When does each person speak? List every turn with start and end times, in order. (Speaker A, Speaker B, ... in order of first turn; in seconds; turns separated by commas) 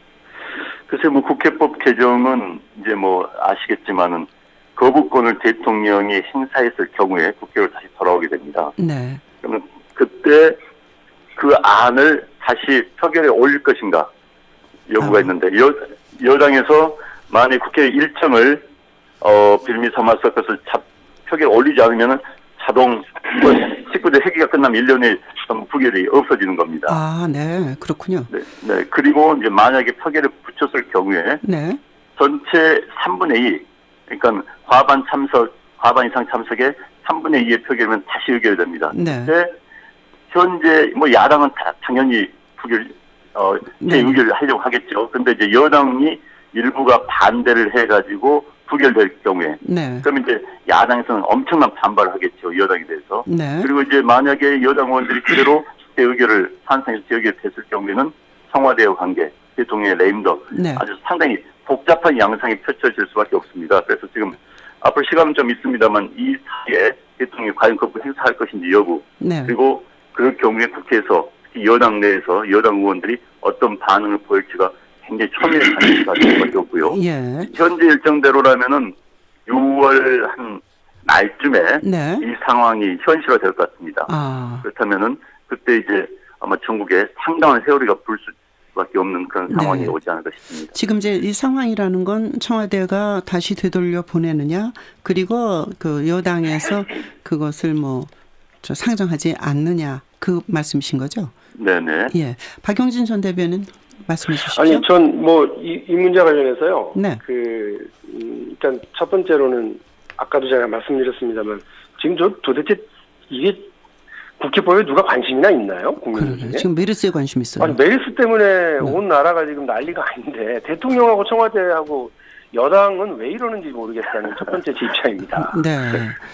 Speaker A: 0.9-8.7, Speaker B: 8.8-9.2, Speaker A: 9.4-10.6, Speaker A: 11.3-14.1, Speaker A: 14.9-18.6, Speaker B: 15.0-15.3, Speaker A: 19.2-27.0, Speaker B: 26.9-28.3, Speaker A: 28.3-31.4, Speaker B: 31.4-31.8, Speaker A: 32.2-39.5, Speaker B: 38.9-39.3, Speaker A: 40.3-78.9, Speaker B: 43.8-44.2, Speaker B: 49.6-50.1, Speaker B: 53.3-53.7, Speaker B: 60.5-60.8, Speaker B: 69.2-69.5, Speaker B: 76.8-77.5, Speaker A: 79.5-84.1, Speaker B: 81.8-82.2, Speaker B: 84.1-84.6, Speaker A: 84.6-90.8, Speaker B: 89.5-89.9, Speaker B: 90.7-98.1, Speaker B: 98.6-101.3, Speaker A: 101.5-102.1, Speaker B: 102.1-104.8, Speaker C: 104.5-113.7, Speaker B: 106.9-107.2, Speaker C: 114.4-116.7, Speaker B: 116.1-117.8, Speaker C: 117.6-125.6, Speaker B: 125.4-126.2